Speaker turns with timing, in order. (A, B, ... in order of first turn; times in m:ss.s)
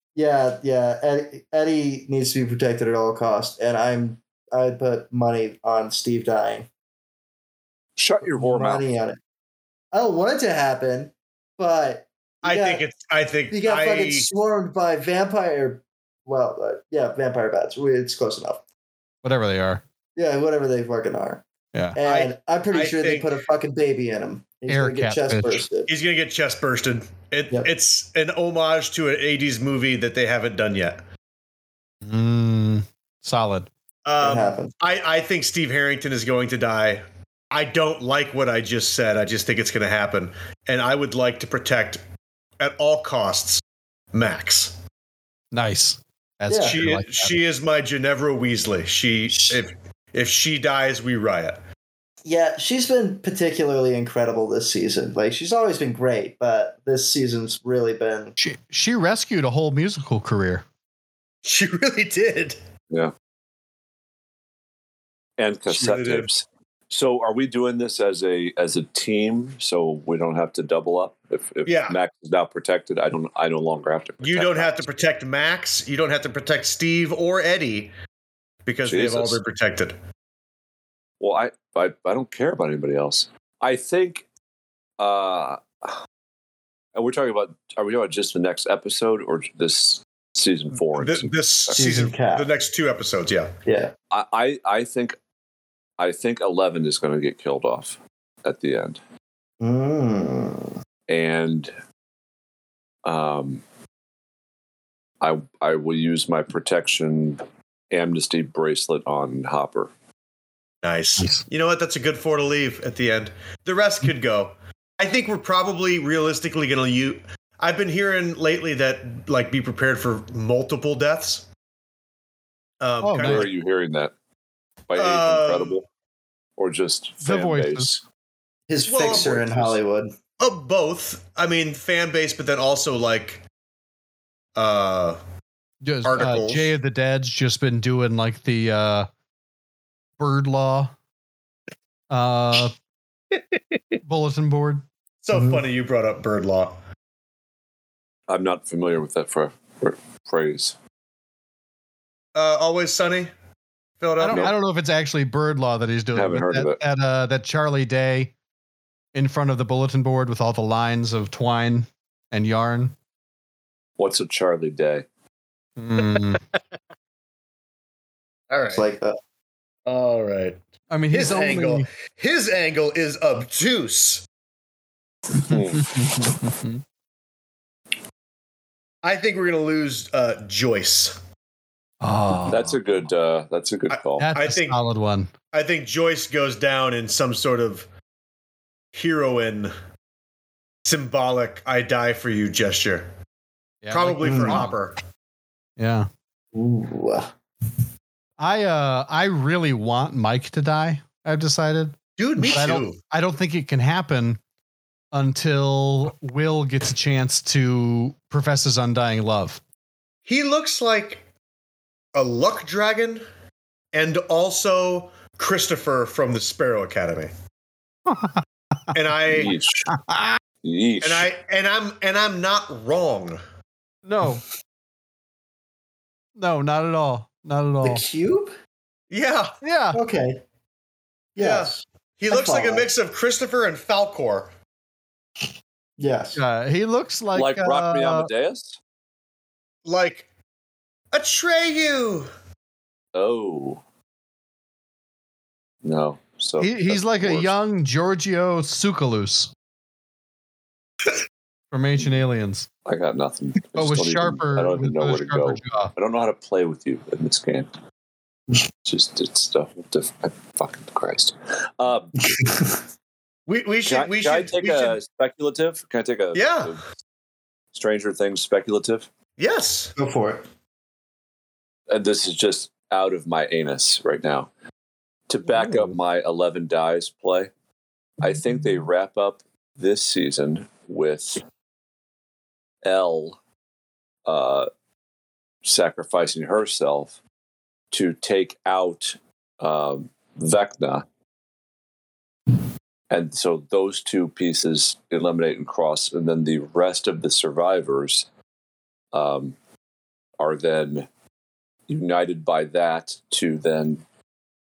0:00.2-0:06.7 A
0:08.0-0:08.8 B
0:08.3-0:09.2 A
0:09.9-0:12.8 A
0:12.4-0:14.3 C
0:13.5-0:18.6 A
0:19.2-0:19.8 D
0:20.2-0:25.9 A
0:22.0-0:23.3 C
0:24.7-0:25.6 D
0:25.9-0:31.0 C
0:32.0-0:33.7 D
0:34.0-0:42.0 C
0:34.2-0:34.7 A
0:42.6-0:43.6 C
0:44.1-0:44.8 C
0:45.5-0:47.4 D
0:46.5-0:46.8 A
0:46.6-0:51.6 C
0:49.3-0:49.6 A
0:52.2-0:58.4 A
0:58.4-1:00.6 D
1:01.4-1:02.6 C
1:05.4-1:14.8 B
1:05.7-1:06.3 C
1:11.6-1:12.0 C
1:14.2-1:17.9 C
1:18.6-1:20.0 C
1:18.9-1:19.4 B
1:21.2-1:24.2 B
1:25.0-1:26.0 B
1:27.0-1:31.8 B
1:30.8-1:33.5 C
1:31.7-1:32.5 A
1:33.7-1:33.9 A
1:34.1-1:35.2 B
1:36.0-1:39.0 B
1:39.6-1:40.8 A
1:41.1-1:41.7 B
1:43.0-1:43.6 B
1:45.2-1:49.9 B
1:50.8-2:01.5 C
2:02.8-2:03.5 C
2:03.0-2:03.5 D
2:03.2-2:04.1 B
2:04.9-2:05.8 B
2:05.0-2:05.8 C
2:06.6-2:08.0 B
2:07.2-2:07.9 D
2:08.7-2:10.1 A
2:08.9-2:09.8 C
2:09.1-2:09.4 B
2:10.4-2:13.4 C
2:14.6-2:15.2 C
2:15.8-2:19.1 D
2:16.0-2:16.7 C
2:20.2-2:20.9 D
2:22.1-2:22.7 D
2:23.3-2:23.8 C
2:24.0-2:24.8 D
2:25.2-2:26.8 C
2:25.3-2:25.6 A
2:28.3-2:30.8 B
2:32.4-2:33.3 C
2:34.0-2:34.6 C
2:34.2-2:38.3 D
2:36.2-2:36.8 B
2:39.1-2:42.9 D
2:44.0-2:45.1 B
2:45.8-2:46.4 D
2:46.0-2:46.6 C
2:48.5-2:48.8 C
2:48.7-2:49.2 A
2:49.9-2:54.2 C
2:50.9-2:51.9 D
2:55.4-2:56.0 B
2:55.8-2:56.8 D
2:59.0-3:01.2 C
3:02.0-3:02.8 D
3:02.5-3:04.3 B
3:03.9-3:04.8 C
3:04.2-3:05.3 D
3:05.5-3:07.9 C
3:08.9-3:09.7 C
3:10.8-3:13.1 C
3:13.8-3:14.8 D
3:13.9-3:15.0 C
3:14.2-3:14.7 A
3:15.8-3:16.1 D
3:16.5-3:17.3 A
3:18.4-3:24.4 D
3:22.2-3:23.0 C
3:25.1-3:29.6 D
3:30.2-3:31.2 C
3:32.2-3:33.2 C
3:33.9-3:37.3 C
3:38.1-3:38.3 D
3:38.9-3:39.5 C
3:39.3-3:39.9 B
3:39.9-3:40.4 D
3:40.6-3:41.3 B
3:41.0-3:43.4 C
3:44.0-3:44.4 D
3:46.4-3:48.0 D
3:47.8-3:48.5 A
3:49.1-3:49.5 C
3:49.6-3:50.0 D
3:49.9-3:50.4 A
3:51.4-3:52.9 A
3:51.4-3:54.5 C
3:56.0-3:56.4 A
3:56.4-3:58.3 D
3:57.4-3:58.8 B
3:59.8-4:00.3 C
4:01.1-4:02.3 C
4:03.1-4:03.8 B
4:05.8-4:07.5 B
4:06.6-4:09.5 D
4:11.7-4:12.7 D
4:12.9-4:17.7 B
4:13.7-4:15.9 D
4:18.8-4:22.1 B
4:22.3-4:22.8 A
4:23.5-4:25.0 C
4:23.8-4:26.8 B
4:26.3-4:26.8 C
4:27.7-4:29.1 B
4:29.4-4:30.0 C
4:30.0-4:30.4 A
4:31.9-4:34.5 B
4:35.3-4:37.5 B
4:38.2-4:41.4 B
4:42.8-4:43.4 B
4:44.3-4:44.7 B
4:45.6-4:47.2 B
4:47.9-4:51.0 B
4:53.1-4:58.3 B
4:59.1-4:59.6 B
5:00.4-5:01.1 B
5:01.9-5:04.0 B